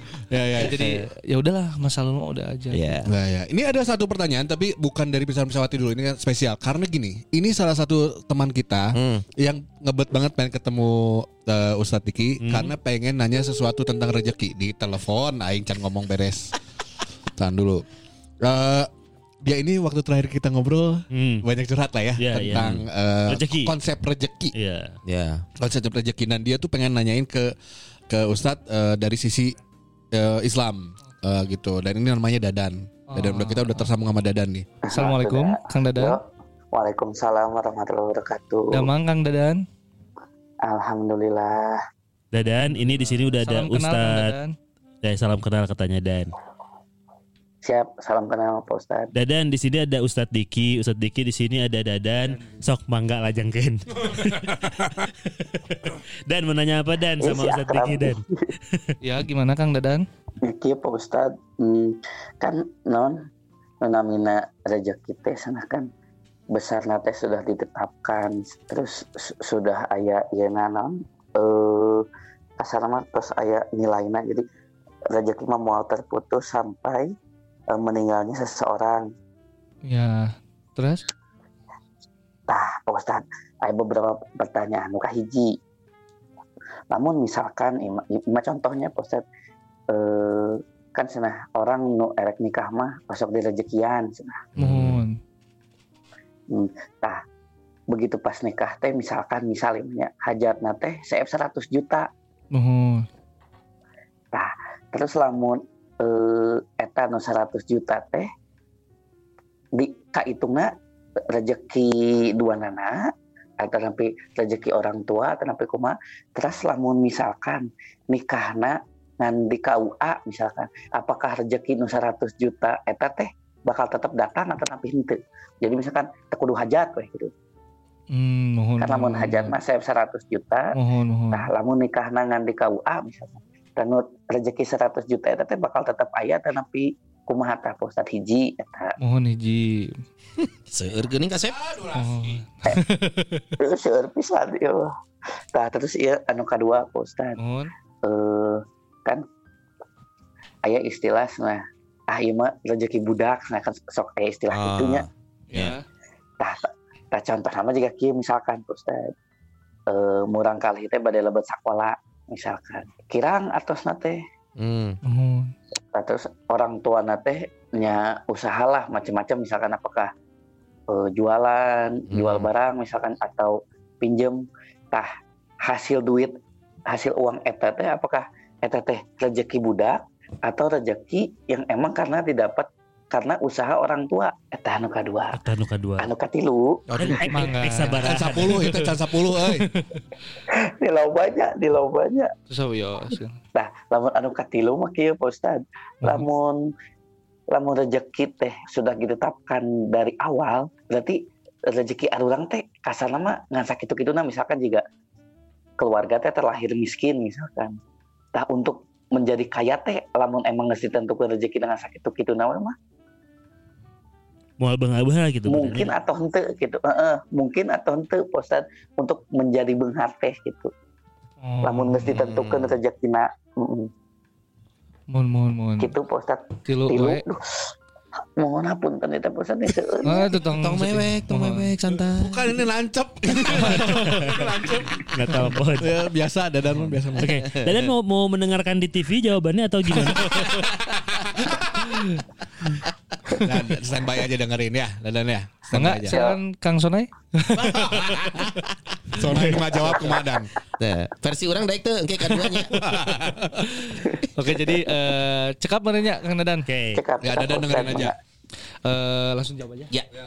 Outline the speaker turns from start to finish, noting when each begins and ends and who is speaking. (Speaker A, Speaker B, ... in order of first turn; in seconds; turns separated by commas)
Speaker A: 0.3-0.8, Speaker B: 0.6-2.8, Speaker C: 0.6-1.1, Speaker C: 2.7-3.1, Speaker A: 3.0-16.5, Speaker C: 8.9-9.2, Speaker D: 12.4-12.7, Speaker A: 17.4-17.8, Speaker A: 18.4-18.9, Speaker A: 19.4-24.5, Speaker D: 21.1-21.4, Speaker D: 22.2-23.8, Speaker C: 22.5-22.8, Speaker D: 24.5-25.0, Speaker C: 25.0-25.5, Speaker A: 25.6-27.5, Speaker A: 28.1-29.6, Speaker A: 30.1-34.7, Speaker B: 33.1-33.9, Speaker E: 34.8-36.2, Speaker B: 34.9-36.2, Speaker E: 36.7-38.9, Speaker B: 38.7-39.6, Speaker E: 40.6-41.8, Speaker D: 42.3-44.3, Speaker B: 42.6-44.5, Speaker D: 45.0-46.3, Speaker E: 47.6-49.1, Speaker D: 49.1-59.0, Speaker E: 57.2-58.5, Speaker B: 59.0-60.0, Speaker E: 60.4-63.2, Speaker E: 63.8-65.9, Speaker E: 66.5-72.0, Speaker E: 72.6-74.4, Speaker E: 75.1-77.1, Speaker E: 77.7-79.1, Speaker B: 79.8-81.0, Speaker E: 82.5-85.6, Speaker E: 86.9-89.2, Speaker E: 89.9-94.5, Speaker B: 94.6-95.2, Speaker D: 94.6-95.0, Speaker E: 96.5-97.2, Speaker E: 97.9-102.1, Speaker B: 102.5-103.1, Speaker E: 104.3-108.3, Speaker E: 109.7-110.7, Speaker E: 111.3-127.3, Speaker B: 128.1-129.5, Speaker E: 128.8-130.7, Speaker B: 130.8-131.5, Speaker E: 131.3-138.9, Speaker B: 139.0-140.0, Speaker C: 140.4-141.6, Speaker A: 141.6-142.0, Speaker B: 141.9-143.5, Speaker E: 143.6-144.9, Speaker E: 145.5-147.4, Speaker B: 147.4-147.7, Speaker E: 148.0-149.2, Speaker E: 150.7-155.0, Speaker C: 154.5-155.7, Speaker B: 155.5-155.8, Speaker E: 156.4-159.1, Speaker E: 159.9-164.2, Speaker C: 164.6-165.0, Speaker B: 165.0-165.5, Speaker E: 165.9-170.1, Speaker E: 170.9-175.1, Speaker C: 172.1-172.5, Speaker E: 175.6-176.3, Speaker E: 176.9-185.4, Speaker D: 185.3-186.1, Speaker E: 186.0-187.2, Speaker A: 186.9-187.2, Speaker D: 186.9-188.6, Speaker B: 187.2-190.0, Speaker A: 188.0-189.7, Speaker E: 190.5-192.3, Speaker B: 192.5-193.4, Speaker E: 193.5-196.7, Speaker E: 197.5-204.8, Speaker E: 205.8-207.8, Speaker E: 208.3-212.7, Speaker D: 214.6-215.9, Speaker E: 215.4-220.7, Speaker B: 221.4-222.1, Speaker E: 221.6-223.9, Speaker C: 222.1-222.8, Speaker B: 225.1-225.9, Speaker E: 225.8-227.6, Speaker B: 226.7-227.2, Speaker E: 228.4-230.3, Speaker B: 230.0-231.7, Speaker C: 230.5-232.5, Speaker A: 232.2-235.0, Speaker B: 233.5-234.1, Speaker D: 233.9-234.4, Speaker D: 235.1-235.9, Speaker A: 235.8-237.3, Speaker D: 237.1-240.6, Speaker C: 237.4-237.9, Speaker A: 240.3-241.9, Speaker A: 243.4-246.2, Speaker B: 245.7-248.3, Speaker A: 247.6-248.5, Speaker A: 249.1-250.5, Speaker C: 249.8-250.2, Speaker C: 250.8-252.8, Speaker B: 252.2-252.7, Speaker A: 252.7-253.7, Speaker B: 253.6-256.7, Speaker D: 256.6-257.0, Speaker E: 256.9-258.1, Speaker A: 257.2-258.1, Speaker B: 258.8-259.9